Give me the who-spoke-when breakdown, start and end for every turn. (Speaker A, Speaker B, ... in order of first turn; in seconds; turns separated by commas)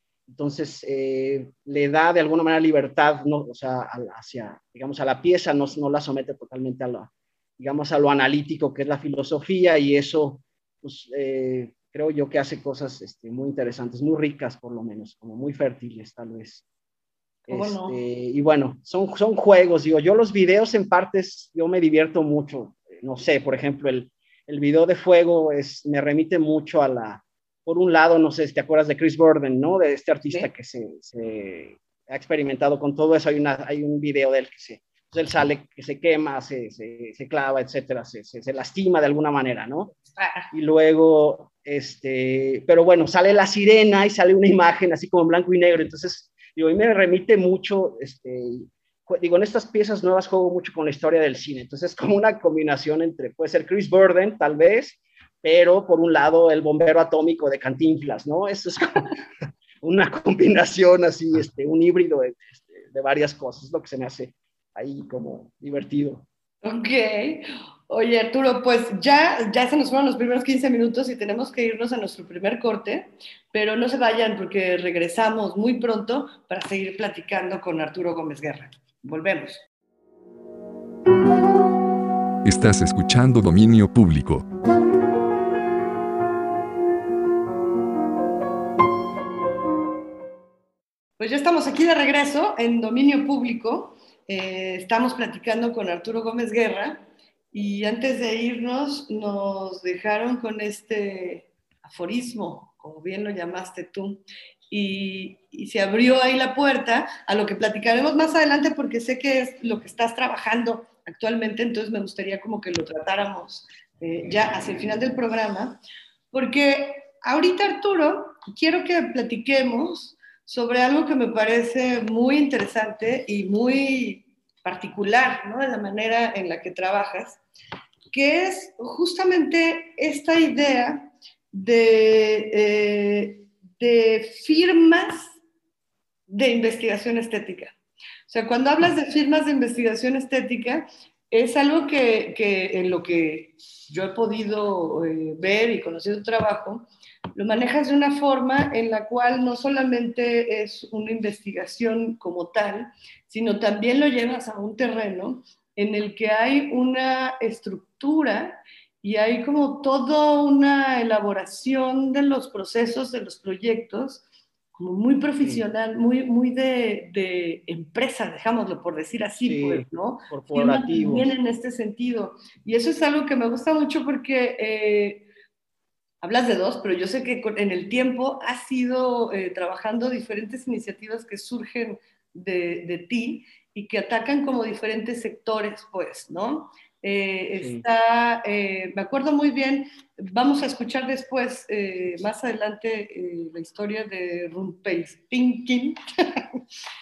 Speaker A: 0.3-16.6, Speaker B: 17.5-18.0, Speaker A: 17.5-39.9, Speaker B: 40.1-40.5, Speaker A: 40.5-59.1, Speaker A: 59.8-66.3, Speaker B: 66.6-79.6, Speaker C: 82.5-84.5, Speaker B: 91.2-115.8, Speaker B: 116.3-127.4, Speaker B: 128.1-135.3, Speaker B: 136.3-137.7, Speaker B: 138.3-164.2, Speaker B: 164.8-175.3, Speaker A: 169.5-171.3, Speaker B: 176.2-196.4, Speaker A: 187.6-187.8